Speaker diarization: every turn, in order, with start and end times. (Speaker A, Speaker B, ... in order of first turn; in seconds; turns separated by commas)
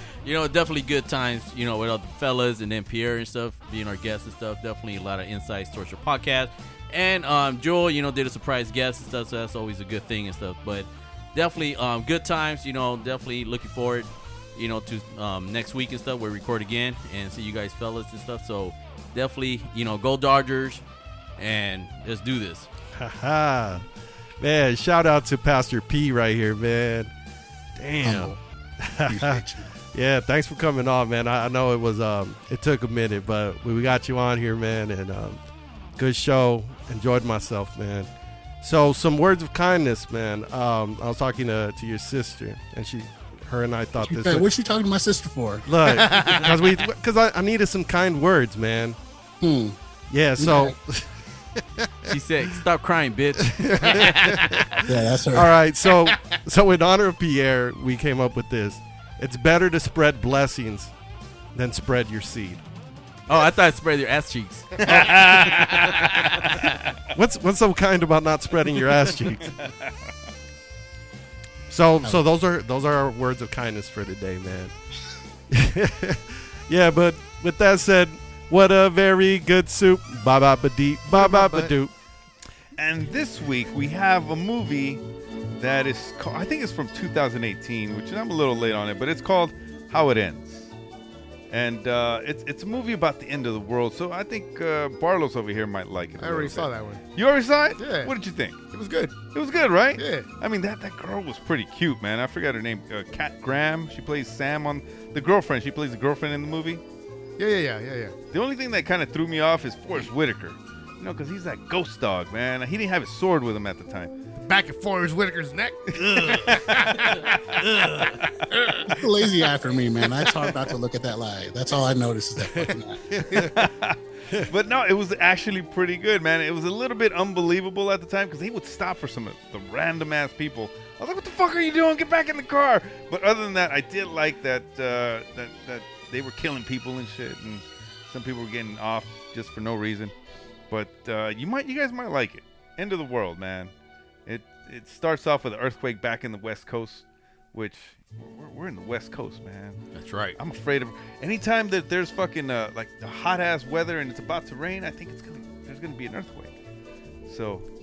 Speaker A: 0.2-20.8, Speaker A: 21.4-22.7, Speaker B: 22.9-23.9, Speaker B: 24.4-27.1, Speaker B: 27.8-29.4, Speaker C: 28.0-28.4, Speaker C: 29.0-29.7, Speaker B: 29.9-35.4, Speaker B: 36.0-38.1, Speaker B: 38.6-44.5, Speaker C: 44.0-45.7, Speaker B: 45.7-49.0, Speaker D: 45.8-46.6, Speaker C: 49.4-49.8, Speaker B: 50.1-51.1, Speaker C: 50.4-50.8, Speaker A: 52.1-54.4, Speaker B: 53.5-60.9, Speaker D: 53.9-54.2, Speaker C: 54.8-55.5, Speaker D: 55.8-56.4, Speaker B: 61.5-62.6, Speaker A: 63.3-64.8, Speaker E: 64.8-66.0, Speaker B: 64.9-65.9, Speaker B: 67.1-69.5, Speaker B: 71.7-74.7, Speaker B: 75.5-81.9, Speaker D: 81.1-81.7, Speaker E: 82.8-85.0, Speaker E: 85.6-90.7, Speaker E: 91.5-98.7, Speaker D: 96.2-97.0, Speaker D: 97.8-98.1, Speaker D: 98.7-99.2, Speaker E: 99.3-106.8, Speaker D: 100.0-100.3, Speaker D: 107.4-108.2, Speaker E: 108.3-114.1, Speaker D: 114.4-117.4, Speaker E: 116.0-117.0, Speaker D: 118.0-118.9, Speaker C: 118.9-123.2, Speaker E: 123.5-124.0, Speaker E: 124.5-140.1, Speaker E: 140.7-143.7, Speaker E: 144.3-149.8, Speaker A: 149.9-150.4, Speaker E: 150.4-156.5, Speaker E: 157.3-157.7